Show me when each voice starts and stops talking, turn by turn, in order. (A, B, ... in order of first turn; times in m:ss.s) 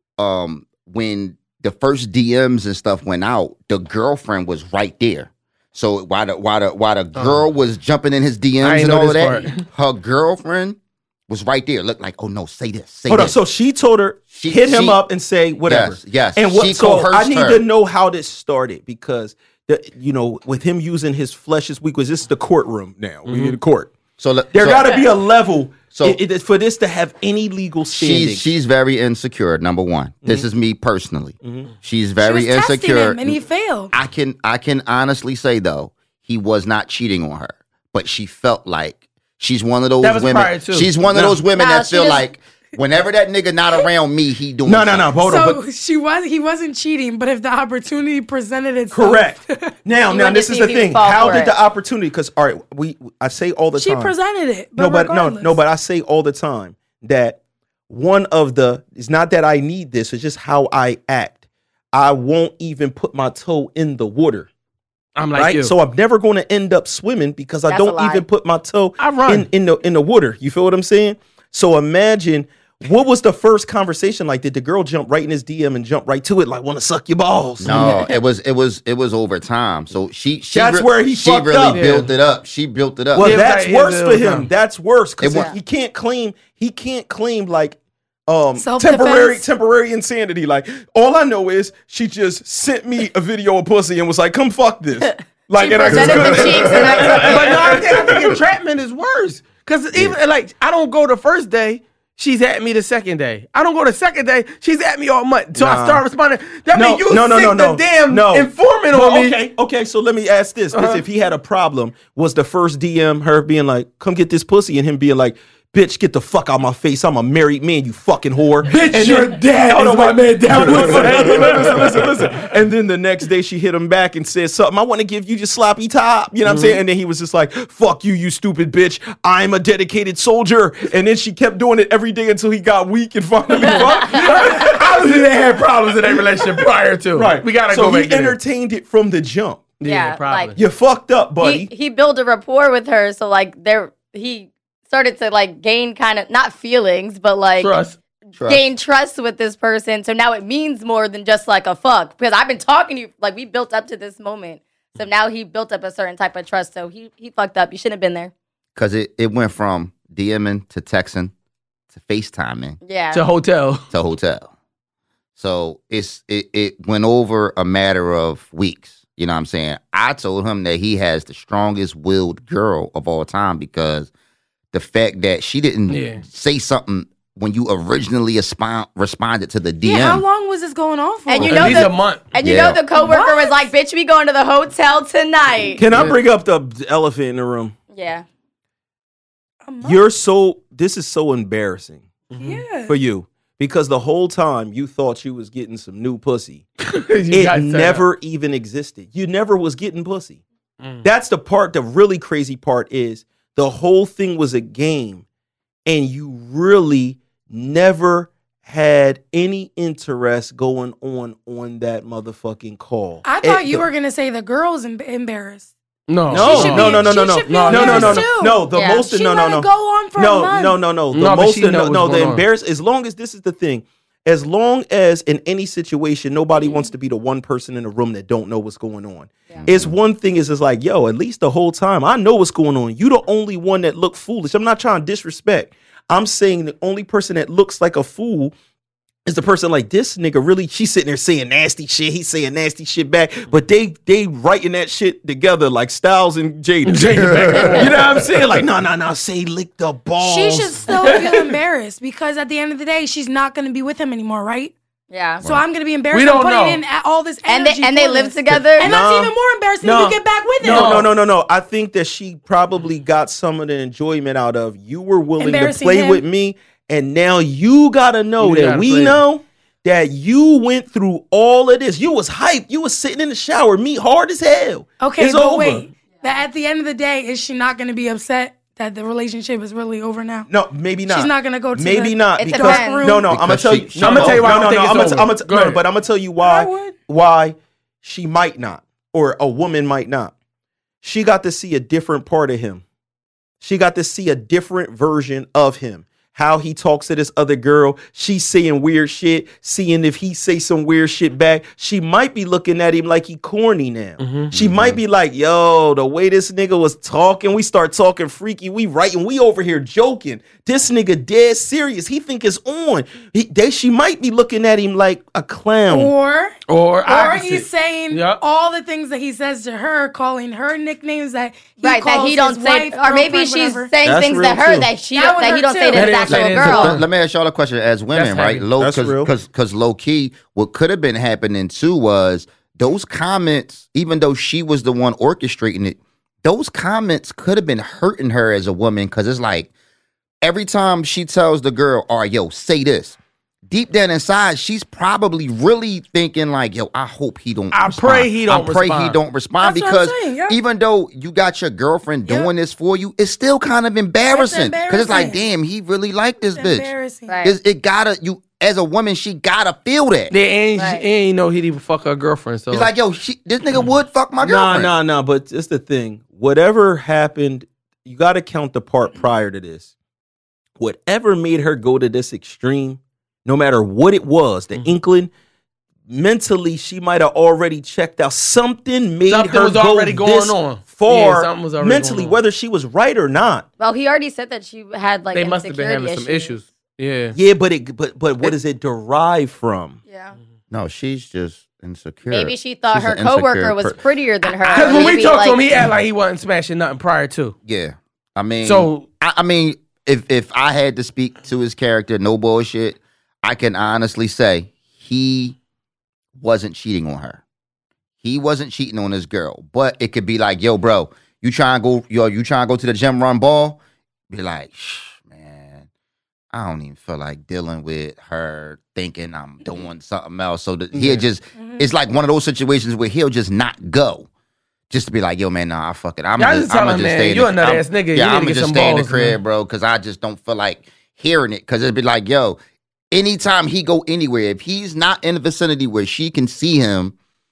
0:00.2-0:10.8 A
0:07.2-0:07.4 B
0:08.6-0:09.6 B
0:11.3-0:13.4 A
0:13.1-0:23.9 C
0:14.3-0:15.0 A
0:15.6-0:17.6 A
0:23.3-0:23.6 B
0:24.2-0:25.0 A
0:24.5-0:28.5 C
0:25.9-0:26.2 A
0:27.9-0:45.1 A
0:31.4-0:31.7 C
0:32.2-0:33.9 D
0:40.0-0:40.9 B
0:41.1-0:41.4 C
0:41.5-0:42.2 E
0:44.7-0:45.6 C
0:45.2-0:49.7 D
0:48.9-0:54.2 C
0:50.1-0:51.6 E
0:53.8-0:55.6 D
0:54.7-1:01.4 C
1:01.9-1:04.5 C
1:05.2-1:05.7 B
1:05.4-1:18.0 C
1:07.7-1:08.3 E
1:09.0-1:09.5 B
1:17.6-1:23.4 A
1:17.7-1:18.2 E
1:20.5-1:21.9 C
1:21.7-1:22.1 B
1:23.1-1:38.4 C
1:23.2-1:24.5 B
1:25.2-1:25.5 A
1:28.6-1:29.5 D
1:35.6-1:37.5 E
1:37.1-1:49.4 B
1:45.6-1:46.0 C
1:46.7-2:15.2 C
1:50.7-1:51.0 B
1:58.7-2:02.4 B
2:06.4-2:06.8 B
2:13.7-2:18.4 B
2:16.2-2:19.8 C
2:19.8-2:20.6 B
2:19.8-2:20.6 E
2:20.6-2:21.7 C
2:21.4-2:27.8 E
2:27.6-2:28.0 B
2:28.4-2:28.6 A
2:28.5-2:38.3 E
2:38.8-2:41.3 A
2:41.9-2:42.8 A
2:42.8-2:43.2 E
2:43.1-2:43.8 B
2:43.9-2:44.5 A
2:45.4-2:54.1 A
2:54.7-3:00.2 A
2:55.9-2:56.2 B
2:59.8-3:01.5 D
3:01.3-3:05.9 E
3:01.4-3:02.3 B
3:02.4-3:02.8 A
3:02.9-3:03.7 D
3:05.8-3:07.8 C
3:05.9-3:06.2 B
3:07.9-3:08.2 E
3:09.7-3:10.0 D
3:09.8-3:12.1 C
3:12.3-3:12.6 B
3:12.4-3:13.0 D
3:12.9-3:16.6 C
3:16.9-3:18.1 B
3:17.3-3:20.4 C
3:21.0-3:25.2 C
3:25.9-3:33.9 C
3:33.2-3:35.7 D
3:36.1-3:38.3 B
3:36.3-3:58.5 C
3:36.3-3:40.8 D
3:38.7-3:39.0 E
3:41.1-3:42.4 B
3:49.6-3:49.9 A
3:59.2-4:11.4 C
4:06.8-4:08.2 B
4:10.2-4:14.7 D
4:15.1-4:15.4 E
4:15.4-4:21.1 D
4:16.1-4:16.8 B
4:17.5-4:19.0 E
4:18.7-4:35.9 C
4:20.6-4:21.1 B
4:25.4-4:26.2 D
4:28.4-4:29.2 B
4:35.0-4:40.5 D
4:40.5-4:50.3 C
4:41.0-4:43.4 D
4:42.4-4:43.2 E
4:43.3-4:44.6 A
4:44.0-4:45.8 B
4:46.4-4:47.0 D
4:51.0-4:52.8 C
4:53.6-5:16.1 C
5:04.2-5:04.5 B
5:04.5-5:05.0 A
5:15.9-5:23.9 D
5:16.7-5:18.4 B
5:21.8-5:27.0 E
5:24.0-5:25.0 C
5:25.0-5:26.3 D
5:25.9-5:27.0 B
5:26.3-5:39.7 A
5:28.1-5:28.6 B
5:28.8-5:29.3 C
5:40.4-5:56.9 A
5:47.7-5:49.2 B
5:49.6-5:50.6 D
5:54.3-5:55.4 D
5:56.5-5:57.4 D
5:57.3-5:57.6 E
5:57.4-6:00.3 A
6:00.3-6:02.9 B
6:00.8-6:01.1 E
6:02.7-6:04.9 A
6:04.4-6:09.9 C
6:10.8-6:15.3 C
6:16.1-6:23.7 C
6:19.3-6:22.4 B
6:23.8-6:26.6 E
6:25.3-6:27.4 B
6:27.3-6:30.0 C
6:30.1-6:30.4 E
6:30.7-6:34.0 A
6:32.3-6:35.6 E
6:34.6-6:37.6 B
6:34.8-6:35.1 A
6:37.6-6:45.6 A
6:38.6-6:39.0 B
6:46.4-6:47.4 A
6:48.2-6:53.8 A
6:54.3-6:55.9 A
6:56.5-7:04.3 A
7:01.6-7:01.9 D
7:04.9-7:12.6 A
7:06.4-7:09.4 B
7:13.1-7:17.2 A